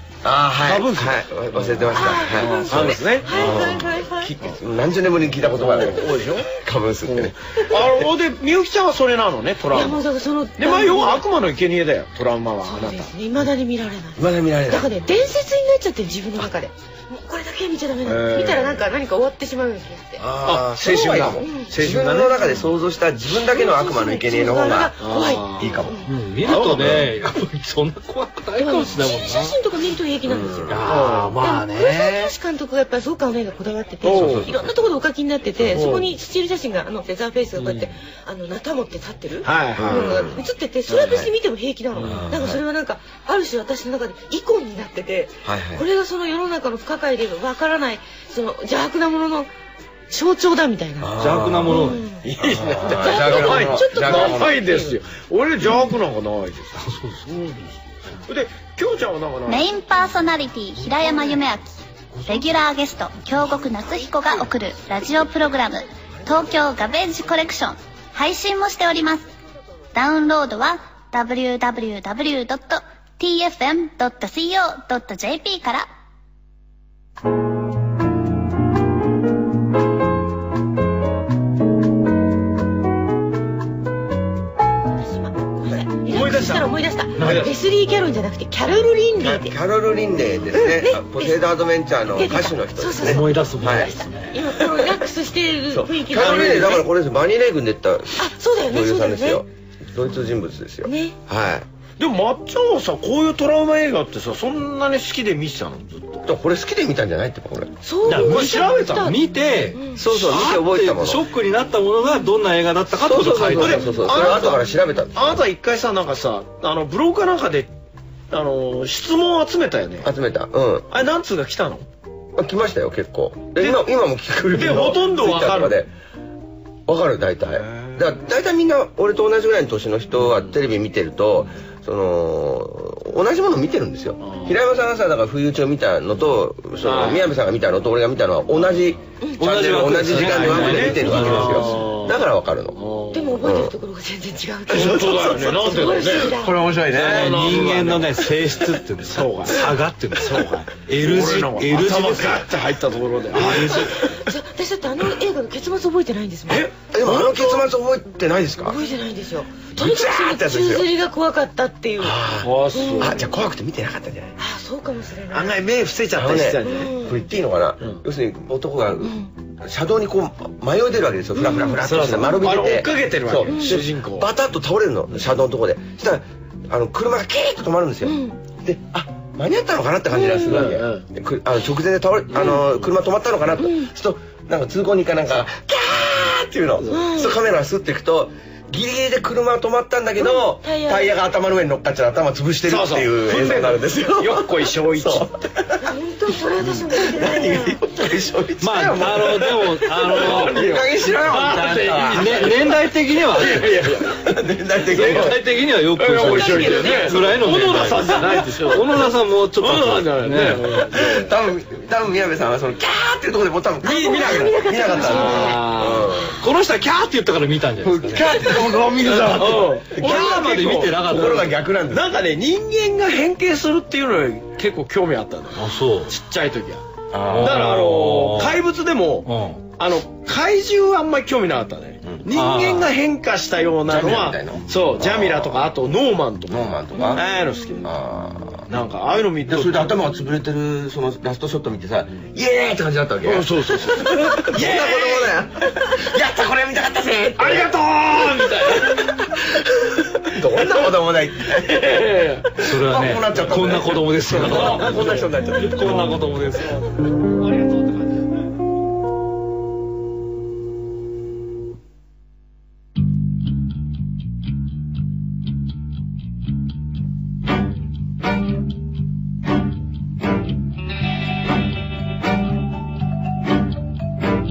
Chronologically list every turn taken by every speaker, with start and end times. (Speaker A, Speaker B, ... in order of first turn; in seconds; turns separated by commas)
Speaker A: 0.2-7.8, Speaker B: 0.6-3.9, Speaker C: 1.9-4.3, Speaker B: 5.4-6.5, Speaker B: 7.0-10.0, Speaker C: 9.7-11.2, Speaker B: 10.6-13.1, Speaker C: 12.6-20.3, Speaker A: 14.2-15.3, Speaker B: 18.0-18.9, Speaker A: 20.2-26.1, Speaker B: 20.4-22.5, Speaker C: 21.4-21.7, Speaker C: 23.5-26.1, Speaker B: 25.0-25.9, Speaker D: 26.1-29.6, Speaker B: 26.4-27.1, Speaker A: 26.7-27.1, Speaker C: 28.6-49.5, Speaker A: 30.2-30.8, Speaker D: 30.7-32.3, Speaker B: 30.9-31.4, Speaker B: 34.0-34.5, Speaker A: 34.1-34.8, Speaker A: 35.6-35.9, Speaker B: 35.7-36.1, Speaker B: 37.5-37.9, Speaker B: 39.4-40.3, Speaker A: 39.7-40.4, Speaker A: 40.9-41.3, Speaker B: 42.0-42.3, Speaker A: 42.0-42.6, Speaker A: 45.4-45.8, Speaker C: 50.1-51.1, Speaker A: 51.0-54.6, Speaker D: 51.2-52.0, Speaker C: 51.7-52.2, Speaker B: 52.2-56.8, Speaker C: 52.9-55.0, Speaker C: 55.6-55.9, Speaker D: 56.8-57.8, Speaker B: 58.3-59.7, Speaker E: 59.5-69.3, Speaker E: 69.9-75.9, Speaker C: 84.9-89.6, Speaker B: 86.1-87.5, Speaker D: 87.2-87.5, Speaker A: 89.2-94.0, Speaker C: 90.5-91.5, Speaker C: 92.1-96.8, Speaker D: 93.0-94.3, Speaker A: 95.7-101.7, Speaker B: 96.1-96.8, Speaker C: 98.2-99.4, Speaker C: 100.8-101.2, Speaker B: 102.0-106.3, Speaker A: 106.2-107.8, Speaker C: 107.8-110.0, Speaker B: 108.0-109.1, Speaker D: 108.0-113.9, Speaker A: 110.0-111.2, Speaker A: 112.9-115.4, Speaker B: 113.5-117.7, Speaker C: 113.8-114.5, Speaker B: 118.3-120.1, Speaker A: 120.0-120.9, Speaker B: 120.9-121.9, Speaker A: 122.3-125.9, Speaker B: 123.6-123.8, Speaker B: 124.5-125.8, Speaker A: 126.9-142.8, Speaker B: 127.6-128.0, Speaker B: 130.2-130.6, Speaker B: 134.2-134.6, Speaker B: 136.8-137.3, Speaker D: 139.4-141.8, Speaker B: 139.9-143.4, Speaker C: 143.1-146.6, Speaker A: 143.4-143.7, Speaker B: 144.7-154.2, Speaker A: 144.8-147.7, Speaker D: 146.9-152.5, Speaker D: 153.3-153.9, Speaker C: 153.6-156.7, Speaker B: 156.5-157.4, Speaker A: 156.8-158.8, Speaker C: 158.6-163.2, Speaker A: 159.7-160.9, Speaker A: 162.0-164.3, Speaker B: 162.4-163.2, Speaker C: 164.4-165.6, Speaker B: 165.3-167.0, Speaker A: 166.1-195.9, Speaker C: 166.6-167.2, Speaker C: 169.0-169.3, Speaker C: 171.3-171.8, Speaker B: 171.8-174.3, Speaker C: 173.4-173.8, Speaker C: 178.0-178.4, Speaker C: 180.1-180.6, Speaker B: 180.5-181.0, Speaker B: 182.3-182.9, Speaker C: 183.6-183.9, Speaker C: 186.9-187.4, Speaker C: 190.2-191.1, Speaker B: 192.7-195.3, Speaker C: 195.8-197.8, Speaker A: 196.9-202.7, Speaker D: 198.6-200.7, Speaker B: 200.1-204.3, Speaker D: 202.1-203.9, Speaker A: 204.0-205.4, Speaker B: 204.8-205.4, Speaker D: 204.9-210.9, Speaker B: 205.9-209.0, Speaker A: 206.2-207.1, Speaker C: 206.8-207.0, Speaker A: 208.2-208.4, Speaker B: 209.6-211.3, Speaker A: 210.9-216.4, Speaker C: 213.8-215.7, Speaker B: 214.0-216.2, Speaker D: 216.4-218.5, Speaker A: 217.8-222.1, Speaker B: 218.7-237.9, Speaker D: 219.9-221.6, Speaker D: 225.5-226.1, Speaker A: 227.1-227.7, Speaker D: 227.2-228.6, Speaker D: 229.2-229.6, Speaker D: 232.3-232.9, Speaker A: 233.9-235.6, Speaker A: 236.5-237.2, Speaker A: 237.8-238.7, Speaker B: 238.7-239.9, Speaker A: 239.4-247.7, Speaker B: 243.2-245.4, Speaker B: 247.4-249.2, Speaker A: 248.9-249.3, Speaker A: 249.9-252.1, Speaker B: 251.6-252.6, Speaker D: 252.6-256.9, Speaker A: 252.7-256.1, Speaker B: 254.4-255.3, Speaker B: 256.6-258.3